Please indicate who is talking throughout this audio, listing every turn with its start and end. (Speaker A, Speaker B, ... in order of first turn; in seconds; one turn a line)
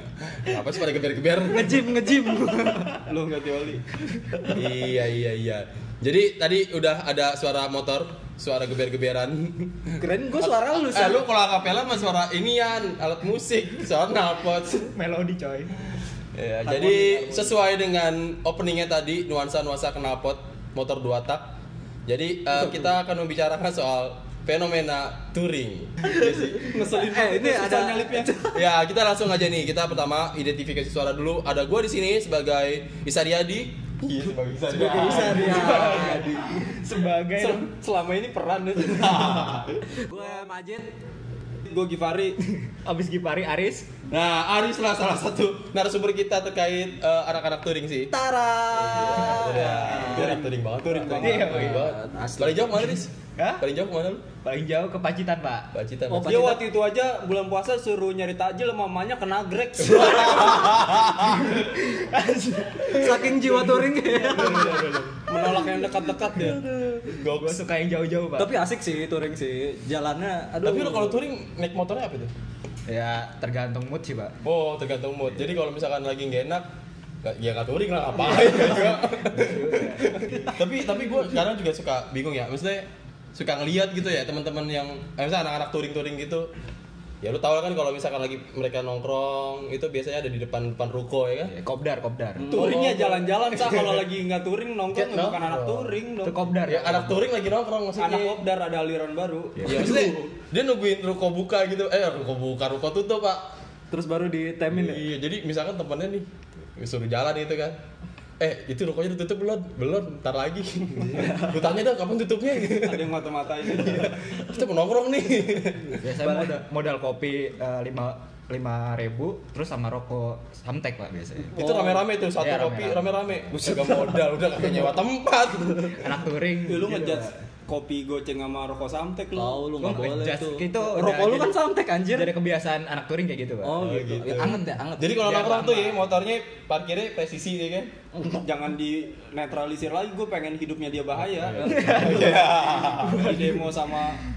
Speaker A: 0.4-1.8
Speaker B: 1.5-3.0
Speaker C: 1.8-4.0
Speaker B: 4.1-4.5
Speaker A: 4.4-14.9
Speaker B: 10.0-11.2
Speaker D: 14.9-15.7
Speaker A: 16.3-26.6
Speaker B: 16.6-17.6
Speaker B: 22.5-22.9
Speaker B: 26.0-28.6
Speaker C: 26.6-28.3
Speaker A: 28.5-36.5
Speaker B: 34.7-36.4
Speaker C: 34.8-35.8
Speaker D: 35.0-37.7
Speaker C: 37.3-39.4
Speaker A: 38.8-39.8
Speaker B: 39.9-40.9
Speaker C: 41.6-42.4
Speaker D: 42.5-43.9
Speaker A: 44.1-48.1
Speaker B: 48.1-50.4
Speaker A: 48.7-54.2
Speaker C: 50.1-51.7
Speaker D: 51.2-51.9
Speaker B: 51.3-53.0
Speaker D: 53.4-53.6
Speaker D: 54.4-55.7
Speaker A: 55.7-56.4
Speaker B: 56.1-56.6
Speaker C: 56.1-60.6
Speaker A: 59.8-61.5
Speaker D: 60.7-64.8
Speaker B: 62.8-64.8
Speaker C: 64.1-66.6
Speaker A: 64.3-67.6
Speaker D: 67.3-68.7
Speaker B: 68.4-71.2
Speaker A: 70.6-72.3
Speaker D: 72.9-74.3
Speaker A: 74.4-76.7
Speaker A: 77.2-86.5
Speaker D: 78.5-80.5
Speaker A: 87.2-91.5
Speaker D: 91.4-92.5
Speaker C: 92.4-96.5
Speaker A: 92.5-94.1
Speaker A: 94.9-96.0
Speaker D: 96.2-97.3
Speaker A: 96.7-98.4
Speaker C: 98.0-100.1
Speaker A: 99.6-103.5
Speaker D: 99.6-100.0
Speaker B: 103.9-105.1
Speaker A: 104.7-106.2
Speaker A: 106.8-107.8
Speaker A: 108.4-116.1
Speaker B: 111.1-111.8
Speaker C: 112.8-114.2
Speaker D: 116.0-121.6
Speaker B: 116.2-116.6
Speaker A: 121.5-126.0
Speaker B: 121.5-122.1
Speaker D: 122.3-124.1
Speaker D: 125.8-127.3
Speaker C: 126.6-130.0
Speaker B: 129.3-132.3
Speaker D: 129.8-133.8
Speaker B: 133.6-135.3
Speaker A: 133.8-137.9
Speaker D: 134.4-136.1
Speaker B: 138.2-138.5
Speaker C: 138.4-142.3
Speaker A: 141.5-143.3
Speaker B: 141.6-142.5
Speaker D: 141.6-144.3
Speaker C: 143.1-144.2